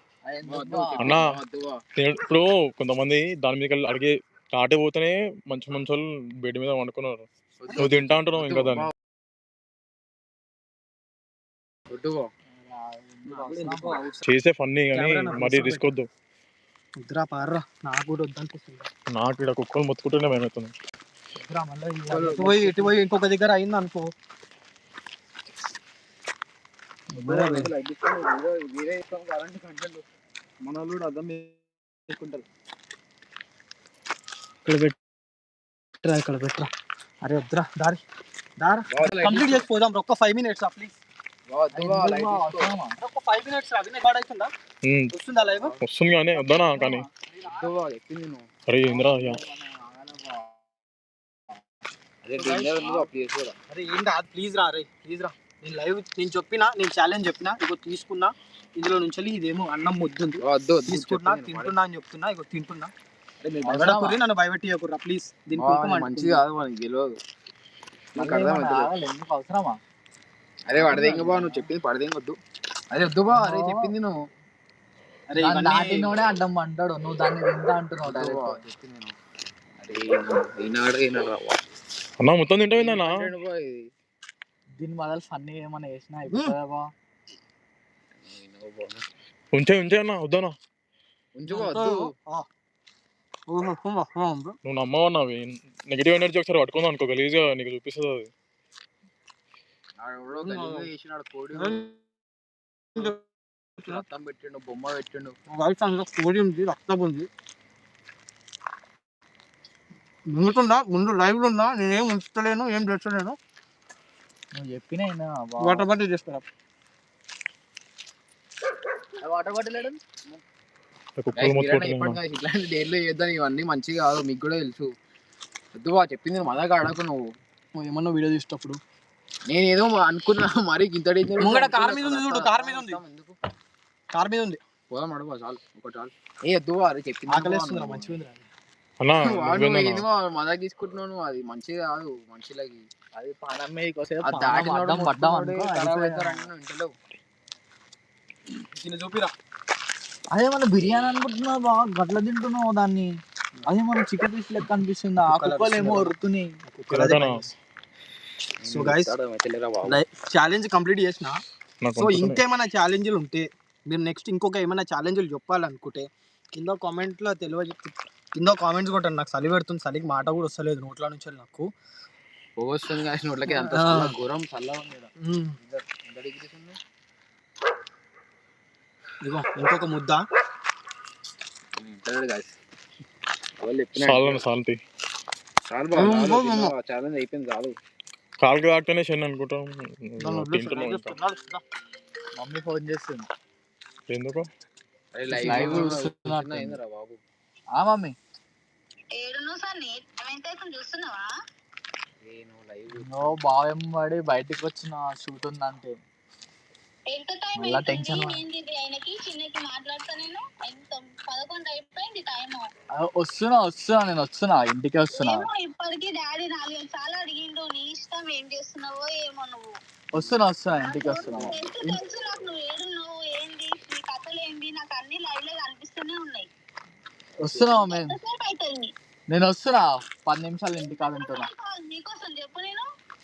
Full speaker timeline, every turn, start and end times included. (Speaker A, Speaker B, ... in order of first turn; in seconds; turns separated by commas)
Speaker A: 0.2-1.2, Speaker B: 0.5-1.8, Speaker C: 1.0-1.4, Speaker C: 1.9-8.9, Speaker B: 7.6-8.9, Speaker B: 11.9-12.3, Speaker A: 12.6-14.2, Speaker D: 13.3-14.2, Speaker C: 14.2-16.1, Speaker D: 14.9-15.9, Speaker D: 17.0-18.9, Speaker C: 19.1-20.7, Speaker D: 21.4-24.1, Speaker A: 21.6-22.2, Speaker B: 22.1-22.9, Speaker D: 27.1-27.7, Speaker B: 27.2-30.0, Speaker B: 30.6-31.6, Speaker B: 32.1-32.4, Speaker D: 34.6-35.0, Speaker D: 36.0-36.7, Speaker D: 37.2-38.0, Speaker D: 38.6-41.0, Speaker B: 38.9-39.7, Speaker B: 41.5-42.7, Speaker A: 41.7-43.0, Speaker D: 43.0-44.5, Speaker C: 44.8-45.1, Speaker D: 45.1-45.8, Speaker B: 45.5-45.8, Speaker C: 45.8-47.0, Speaker A: 46.4-47.7, Speaker B: 47.4-48.5, Speaker C: 48.7-49.4, Speaker A: 48.8-50.6, Speaker B: 52.2-53.6, Speaker D: 52.4-53.0, Speaker D: 53.7-62.9, Speaker B: 60.4-61.7, Speaker B: 63.4-64.1, Speaker D: 63.7-66.4, Speaker A: 63.8-64.2, Speaker B: 65.5-67.1, Speaker B: 68.2-68.9, Speaker A: 68.2-69.8, Speaker B: 70.7-72.4, Speaker A: 70.7-71.7, Speaker B: 72.9-74.1, Speaker A: 73.3-73.9, Speaker D: 75.3-76.1, Speaker A: 75.4-78.6, Speaker B: 78.0-79.2, Speaker B: 79.8-81.6, Speaker C: 82.2-83.3, Speaker B: 82.7-83.9, Speaker A: 84.8-86.9, Speaker D: 86.3-86.5, Speaker B: 88.2-89.0, Speaker C: 89.5-90.5, Speaker B: 91.3-92.1, Speaker D: 91.5-92.5, Speaker D: 93.5-94.6, Speaker C: 94.6-98.3, Speaker B: 100.0-101.8, Speaker D: 100.3-100.9, Speaker D: 101.5-101.9, Speaker B: 103.8-105.3, Speaker D: 105.5-107.3, Speaker D: 110.3-113.4, Speaker A: 114.5-115.8, Speaker D: 115.6-116.4, Speaker A: 119.2-120.0, Speaker C: 121.2-122.2, Speaker B: 121.3-124.9, Speaker B: 125.8-127.2, Speaker D: 127.8-128.8, Speaker B: 129.4-133.3, Speaker D: 131.4-133.0, Speaker D: 134.1-134.6, Speaker B: 134.9-138.1, Speaker D: 137.3-138.5, Speaker C: 139.0-140.1, Speaker B: 139.2-142.9, Speaker A: 143.1-146.5, Speaker B: 144.2-146.9, Speaker D: 148.7-149.3, Speaker A: 150.3-156.6, Speaker D: 155.3-156.2, Speaker D: 156.7-157.5, Speaker C: 156.9-157.4, Speaker B: 158.6-160.0, Speaker D: 158.7-159.1, Speaker D: 159.8-161.4, Speaker C: 161.8-162.4, Speaker D: 161.9-171.7, Speaker B: 172.6-176.8, Speaker D: 173.5-174.1, Speaker D: 175.2-175.6, Speaker D: 179.2-180.2, Speaker B: 181.8-182.6, Speaker B: 183.6-184.5, Speaker C: 184.0-184.8, Speaker B: 185.7-187.8, Speaker D: 185.9-186.7, Speaker C: 188.4-191.2, Speaker D: 190.2-191.6, Speaker A: 192.3-193.3, Speaker C: 194.1-194.5, Speaker B: 195.1-197.2, Speaker A: 195.3-196.8, Speaker A: 197.8-198.2, Speaker E: 199.1-201.2, Speaker B: 202.2-203.4, Speaker A: 202.9-206.0, Speaker E: 207.1-212.7, Speaker A: 207.6-208.4, Speaker A: 212.9-215.5, Speaker E: 215.1-219.7, Speaker A: 220.1-222.0, Speaker E: 220.7-226.5, Speaker A: 227.4-228.2, Speaker E: 227.6-228.9, Speaker A: 229.3-231.5, Speaker E: 230.7-232.8